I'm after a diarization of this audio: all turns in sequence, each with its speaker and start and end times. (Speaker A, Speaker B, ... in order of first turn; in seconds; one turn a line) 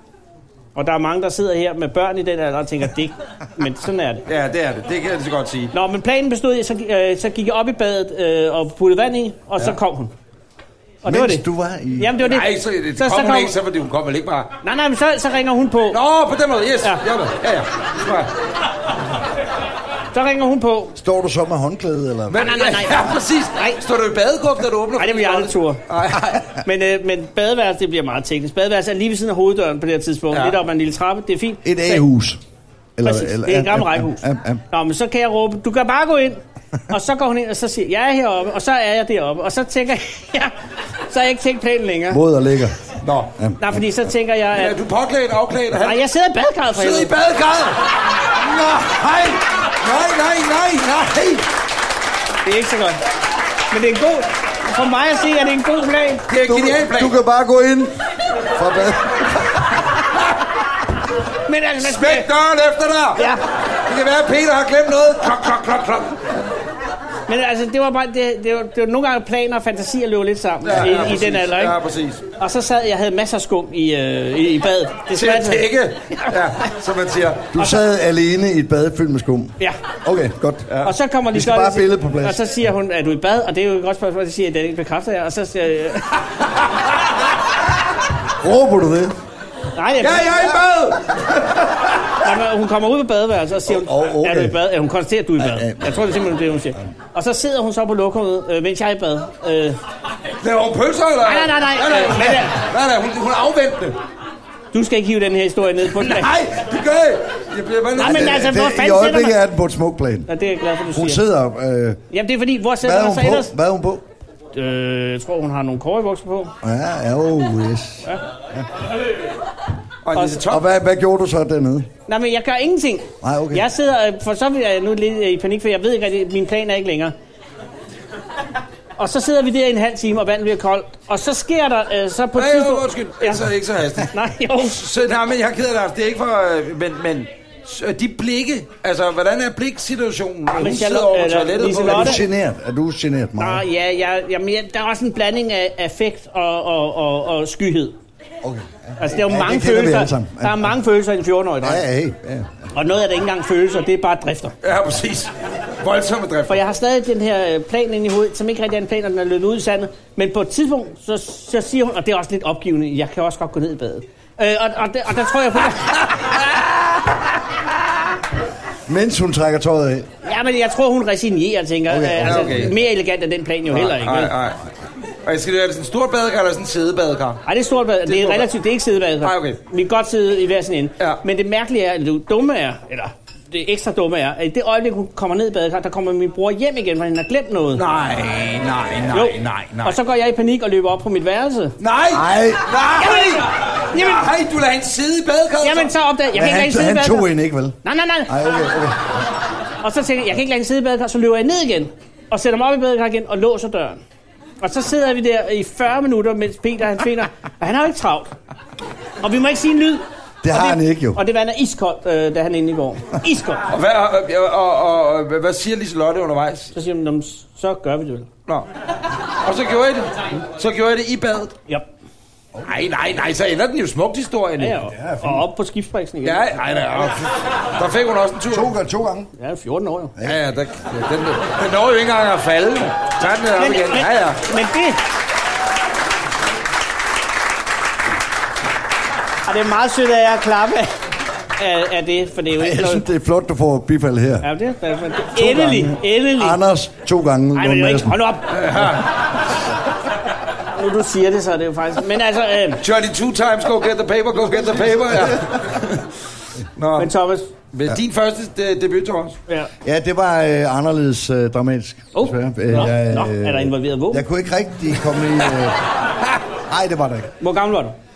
Speaker A: 0.8-4.2
Speaker B: 4.3-5.7
Speaker A: 5.7-10.1
Speaker A: 11.0-11.5
Speaker C: 11.1-12.2
Speaker A: 12.0-13.6
Speaker B: 12.2-14.5
Speaker A: 14.6-16.0
Speaker B: 15.9-18.3
Speaker A: 20.1-21.0
Speaker C: 21.0-22.5
Speaker B: 22.3-26.5
Speaker A: 22.4-23.8
Speaker A: 25.0-25.8
Speaker A: 26.5-32.0
Speaker B: 30.3-30.6
Speaker C: 31.6-32.4
Speaker C: 33.0-34.6
Speaker A: 33.0-40.5
Speaker A: 41.0-42.2
Speaker C: 42.1-42.8
Speaker B: 43.0-43.4
Speaker C: 43.4-43.9
Speaker A: 43.6-44.8
Speaker B: 44.5-46.0
Speaker A: 45.8-47.1
Speaker B: 46.7-51.5
Speaker A: 52.5-53.0
Speaker A: 53.7-56.3
Speaker B: 56.3-57.2
Speaker C: 56.4-57.9
Speaker C: 58.5-59.7
Speaker A: 61.5-62.3
Speaker B: 61.8-66.3
Speaker A: 63.2-63.4
Speaker A: 67.3-71.8
Speaker B: 70.6-72.2
Speaker A: 72.4-75.7
Speaker B: 75.1-77.5
Speaker C: 77.5-80.8
Speaker B: 80.7-80.9
Speaker A: 80.8-86.2
Speaker C: 81.3-82.4
Speaker C: 88.3-89.2
Speaker A: 89.8-90.4
Speaker B: 90.0-91.7
Speaker A: 92.2-99.8
Speaker C: 93.7-94.6
Speaker C: 95.4-96.0
Speaker B: 100.4-104.0
Speaker A: 101.2-102.6
Speaker A: 104.7-106.3
Speaker B: 105.9-108.5
Speaker A: 108.0-109.4
Speaker C: 108.0-110.3
Speaker A: 110.3-111.2
Speaker C: 110.9-112.0
Speaker A: 112.1-113.5
Speaker C: 112.8-114.1
Speaker A: 114.5-116.5
Speaker C: 116.6-118.7
Speaker B: 120.0-120.6
Speaker A: 120.2-120.4
Speaker C: 120.4-121.9
Speaker A: 122.1-127.2
Speaker C: 123.2-123.7
Speaker A: 129.0-133.5
Speaker B: 132.4-142.2
Speaker A: 134.1-134.8
Speaker A: 140.6-142.2
Speaker C: 141.8-143.6
Speaker A: 143.4-148.0
Speaker C: 148.4-150.7
Speaker A: 149.0-151.8
Speaker C: 151.6-152.6
Speaker A: 152.7-154.6
Speaker B: 154.6-156.6
Speaker A: 156.5-166.3
Speaker C: 168.9-170.1
Speaker A: 170.2-174.3
Speaker C: 171.9-172.7
Speaker B: 172.2-172.7
Speaker B: 173.7-174.6
Speaker B: 175.2-177.4
Speaker A: 177.5-187.8
Speaker B: 178.1-178.5
Speaker B: 179.2-179.6
Speaker B: 187.8-190.0
Speaker A: 189.1-191.8
Speaker B: 191.8-195.9
Speaker C: 192.1-192.7
Speaker A: 193.0-194.3
Speaker A: 195.6-197.3
Speaker C: 196.3-199.2
Speaker A: 197.8-198.3
Speaker A: 199.8-204.0
Speaker A: 204.6-208.4
Speaker A: 209.2-213.6
Speaker C: 210.4-211.2
Speaker B: 213.7-216.7
Speaker A: 216.7-218.3
Speaker B: 219.4-221.6
Speaker B: 222.6-224.8
Speaker A: 224.6-226.6
Speaker C: 224.9-225.4
Speaker B: 226.2-228.7
Speaker C: 228.5-229.3
Speaker A: 229.4-230.1
Speaker B: 230.2-234.4
Speaker A: 233.6-235.0
Speaker A: 239.5-240.9
Speaker A: 241.6-243.1
Speaker C: 242.5-244.5
Speaker A: 244.4-246.6
Speaker C: 245.4-248.2
Speaker A: 247.6-248.6
Speaker B: 248.5-249.3
Speaker A: 250.8-252.8
Speaker B: 252.8-256.1
Speaker B: 256.8-257.1
Speaker A: 257.0-257.5
Speaker B: 257.7-259.4
Speaker C: 259.8-265.8
Speaker A: 262.1-264.3
Speaker C: 266.7-267.3
Speaker A: 267.4-268.0